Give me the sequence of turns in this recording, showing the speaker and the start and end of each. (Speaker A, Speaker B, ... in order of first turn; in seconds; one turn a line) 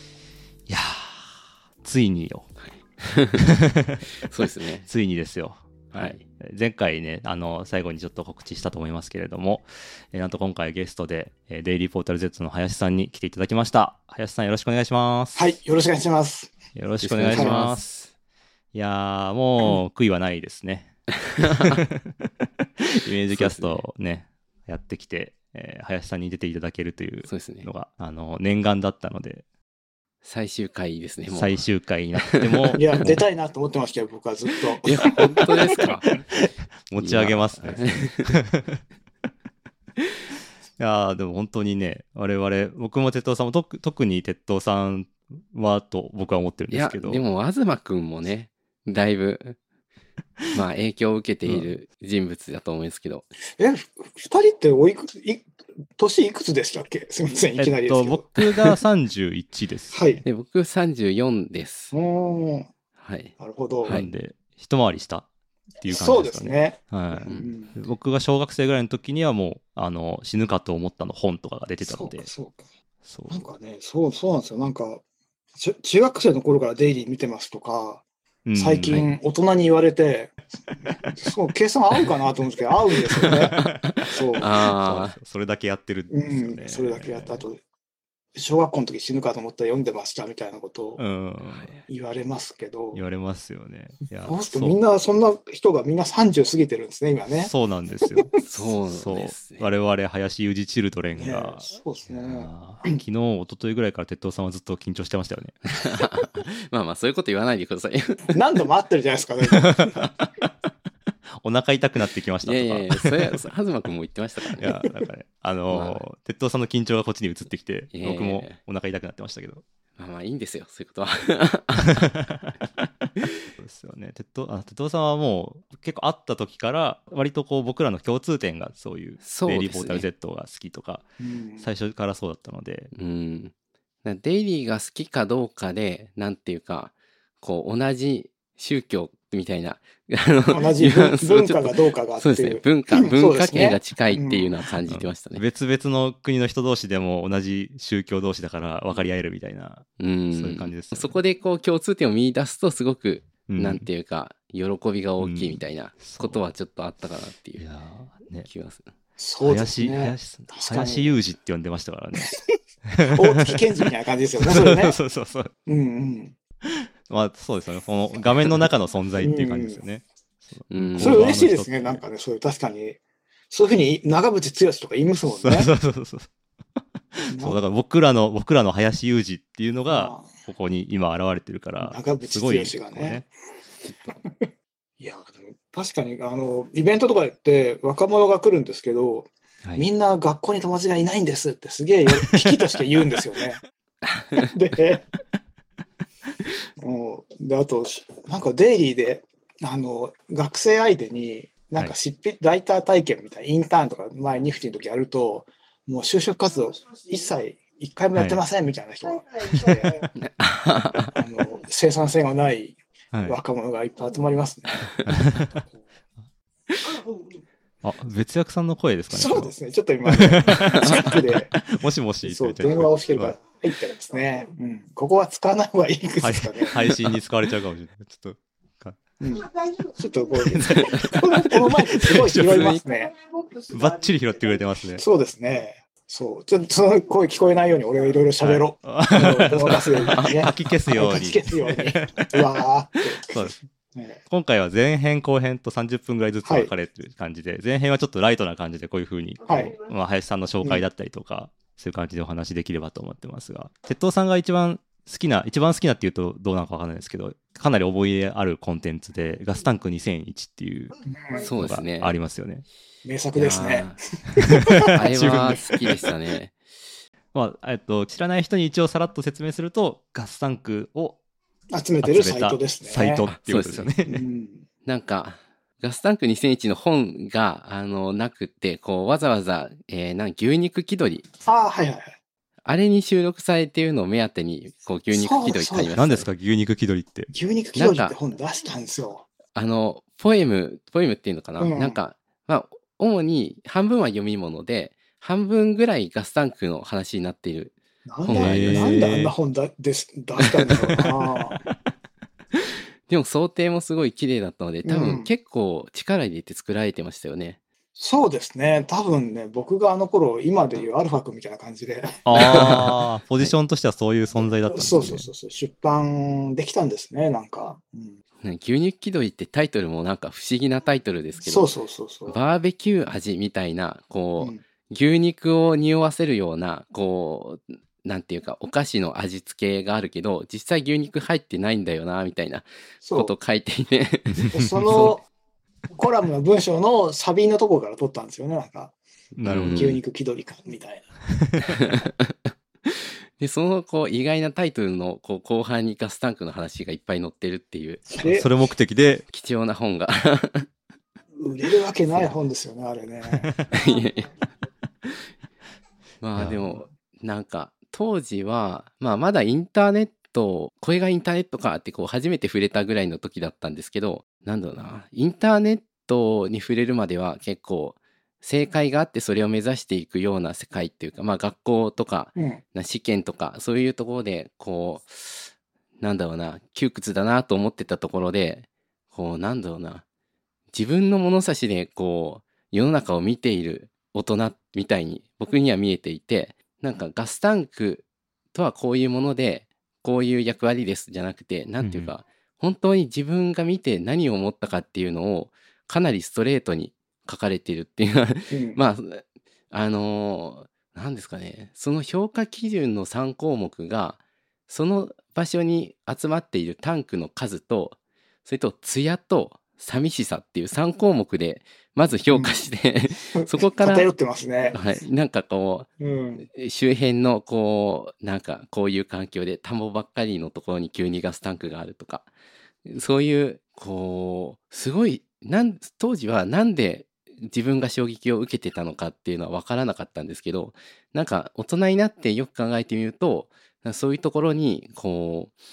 Speaker A: 0.7-2.5
Speaker B: 2.6-3.5
Speaker A: 3.4-4.0
Speaker B: 4.2-4.9
Speaker A: 4.9-15.5
Speaker B: 5.9-6.2
Speaker C: 15.3-16.5
Speaker A: 16.8-18.0
Speaker B: 17.0-18.1
Speaker A: 18.7-22.3
Speaker B: 21.3-21.8
Speaker A: 22.8-29.4
Speaker B: 23.3-23.8
Speaker B: 27.3-27.7
Speaker B: 30.2-31.6
Speaker A: 31.3-33.2
Speaker B: 32.2-33.0
Speaker C: 32.8-35.1
Speaker B: 34.8-36.1
Speaker A: 35.8-38.8
Speaker B: 37.0-38.4
Speaker A: 40.8-47.2
Speaker B: 46.7-49.6
Speaker B: 50.5-53.3
Speaker C: 53.6-55.5
Speaker C: 56.0-58.8
Speaker A: 57.6-60.0
Speaker C: 59.9-60.2
Speaker B: 60.2-61.9
Speaker C: 61.9-62.7
Speaker B: 63.0-64.1
Speaker C: 63.4-64.0
Speaker A: 63.9-65.3
Speaker A: 65.8-72.3
Speaker C: 65.9-67.8
Speaker C: 71.8-72.7
Speaker A: 73.0-73.4
Speaker C: 73.3-75.0
Speaker C: 75.5-78.0
Speaker A: 78.5-79.1
Speaker C: 78.6-84.5
Speaker A: 83.2-87.4
Speaker B: 83.2-85.2
Speaker C: 86.1-87.6
Speaker C: 88.3-91.0
Speaker A: 91.0-91.8
Speaker B: 91.4-91.8
Speaker C: 91.9-93.0
Speaker A: 92.9-94.8
Speaker C: 94.2-97.5
Speaker A: 97.4-98.3
Speaker C: 98.1-98.4
Speaker B: 98.4-99.7
Speaker A: 98.9-105.6
Speaker C: 101.2-103.0
Speaker B: 105.7-108.4
Speaker C: 108.3-110.1
Speaker A: 109.5-110.1
Speaker A: 111.4-113.5
Speaker B: 112.4-114.8
Speaker A: 114.6-119.6
Speaker B: 115.7-116.0
Speaker B: 117.9-118.6
Speaker B: 120.0-122.1
Speaker A: 122.0-122.6
Speaker A: 123.6-131.1
Speaker B: 129.2-130.1
Speaker C: 131.2-131.7
Speaker A: 131.6-132.9
Speaker B: 132.9-133.5
Speaker B: 134.0-145.4
Speaker C: 140.5-144.6
Speaker A: 144.9-151.2
Speaker B: 150.0-157.7
Speaker A: 153.5-153.9
Speaker A: 155.2-156.5
Speaker A: 157.6-158.5
Speaker B: 158.5-158.9
Speaker C: 159.2-161.2
Speaker A: 159.4-165.5
Speaker C: 163.1-165.0
Speaker C: 165.7-166.3
Speaker A: 166.7-172.0
Speaker C: 169.2-169.8
Speaker B: 170.7-171.3
Speaker C: 171.0-173.0
Speaker C: 173.5-175.7
Speaker A: 175.2-176.3
Speaker A: 177.1-183.2
Speaker C: 177.3-177.6
Speaker C: 179.9-180.3
Speaker C: 181.8-183.3
Speaker C: 185.0-193.6
Speaker C: 194.3-195.1
Speaker C: 196.8-210.1
Speaker B: 210.2-211.1
Speaker C: 211.1-214.9
Speaker A: 213.1-213.4
Speaker A: 215.1-215.6
Speaker A: 217.8-219.5
Speaker C: 219.1-221.7
Speaker A: 220.1-223.4
Speaker C: 222.2-226.8
Speaker A: 226.2-229.0
Speaker C: 229.2-233.2
Speaker A: 230.4-232.8
Speaker B: 230.9-231.2
Speaker A: 233.7-235.0
Speaker C: 235.0-244.2
Speaker A: 238.4-242.5
Speaker B: 240.1-240.5
Speaker A: 243.3-243.5
Speaker A: 244.3-260.9
Speaker C: 246.4-246.7
Speaker C: 249.5-249.8
Speaker C: 261.1-261.5
Speaker B: 261.4-262.1
Speaker A: 261.6-262.6
Speaker C: 263.0-264.9
Speaker B: 263.4-264.0
Speaker A: 264.4-265.7
Speaker B: 264.9-266.6
Speaker A: 267.3-271.2
Speaker C: 271.7-273.3
Speaker A: 272.0-274.2
Speaker B: 273.3-273.9
Speaker C: 274.1-274.6
Speaker B: 274.9-281.2
Speaker C: 281.4-282.2
Speaker B: 282.6-286.3
Speaker C: 285.1-285.9
Speaker A: 285.9-287.3
Speaker C: 287.3-289.3
Speaker B: 287.8-288.2
Speaker B: 289.5-299.1
Speaker C: 291.6-292.0
Speaker C: 298.1-301.6
Speaker A: 298.3-299.4
Speaker B: 303.1-307.6
Speaker C: 304.8-305.3
Speaker C: 308.0-312.2
Speaker A: 312.3-315.3
Speaker B: 312.3-313.6
Speaker C: 314.6-318.2
Speaker B: 318.4-321.7
Speaker C: 321.4-322.4
Speaker B: 322.3-335.1
Speaker C: 333.0-333.4
Speaker A: 334.4-335.1
Speaker C: 334.5-335.3
Speaker C: 335.9-338.9
Speaker A: 339.4-340.0
Speaker B: 339.5-340.0
Speaker C: 339.5-341.1
Speaker A: 341.4-341.8
Speaker B: 341.8-348.1
Speaker C: 348.1-348.5
Speaker A: 348.2-349.3
Speaker B: 349.3-350.7
Speaker C: 351.4-353.5
Speaker A: 353.4-353.7
Speaker B: 353.7-354.3
Speaker B: 356.2-375.5
Speaker A: 356.4-356.6
Speaker C: 372.4-372.6
Speaker B: 376.0-380.0
Speaker B: 380.7-414.1
Speaker A: 391.8-392.1
Speaker C: 398.5-398.8
Speaker C: 412.3-412.7
Speaker C: 413.4-414.8
Speaker B: 414.7-422.3
Speaker C: 416.0-416.4
Speaker B: 422.9-435.5